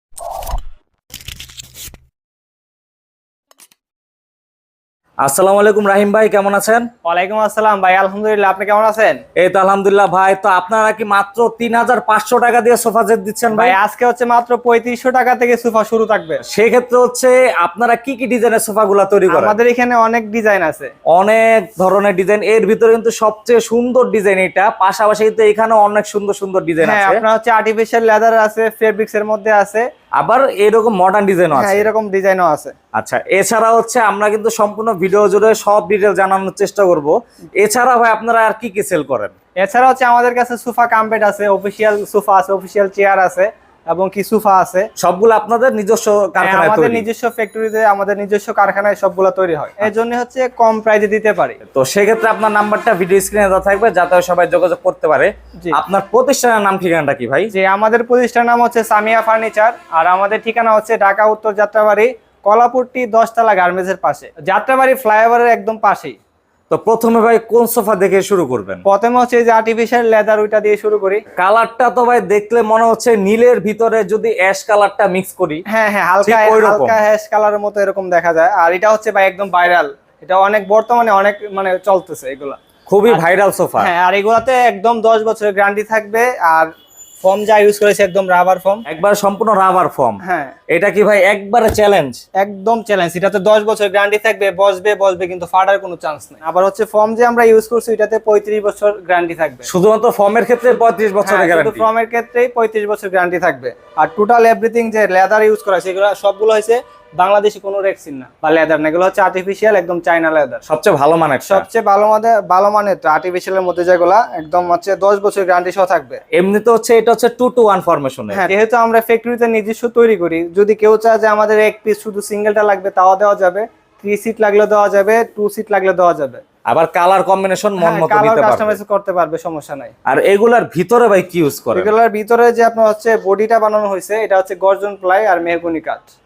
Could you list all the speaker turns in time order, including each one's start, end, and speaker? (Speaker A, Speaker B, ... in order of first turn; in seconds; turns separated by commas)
Speaker A: 5.2-6.9, Speaker B: 7.0-9.2, Speaker A: 9.3-13.8, Speaker B: 13.5-16.4, Speaker A: 16.4-19.6, Speaker B: 19.3-20.9, Speaker A: 21.1-27.2, Speaker B: 26.8-29.9, Speaker A: 30.2-31.9, Speaker B: 31.5-32.7, Speaker A: 32.9-39.3, Speaker B: 39.6-44.9, Speaker A: 45.0-47.1, Speaker B: 46.4-51.6, Speaker A: 51.6-57.5, Speaker B: 57.5-66.2, Speaker A: 66.7-68.8, Speaker B: 68.8-71.2, Speaker A: 71.3-75.6, Speaker B: 75.7-82.6, Speaker A: 76.2-77.0, Speaker A: 82.9-83.9, Speaker B: 83.8-88.8, Speaker A: 88.9-92.2, Speaker B: 90.2-90.5, Speaker B: 92.4-99.7, Speaker A: 99.7-101.9, Speaker B: 101.2-110.6, Speaker A: 110.7-111.7, Speaker B: 111.5-116.2, Speaker A: 116.3-118.5, Speaker B: 118.3-126.4, Speaker A: 126.7-128.8, Speaker B: 127.8-129.9, Speaker A: 130.1-131.9, Speaker B: 131.7-136.1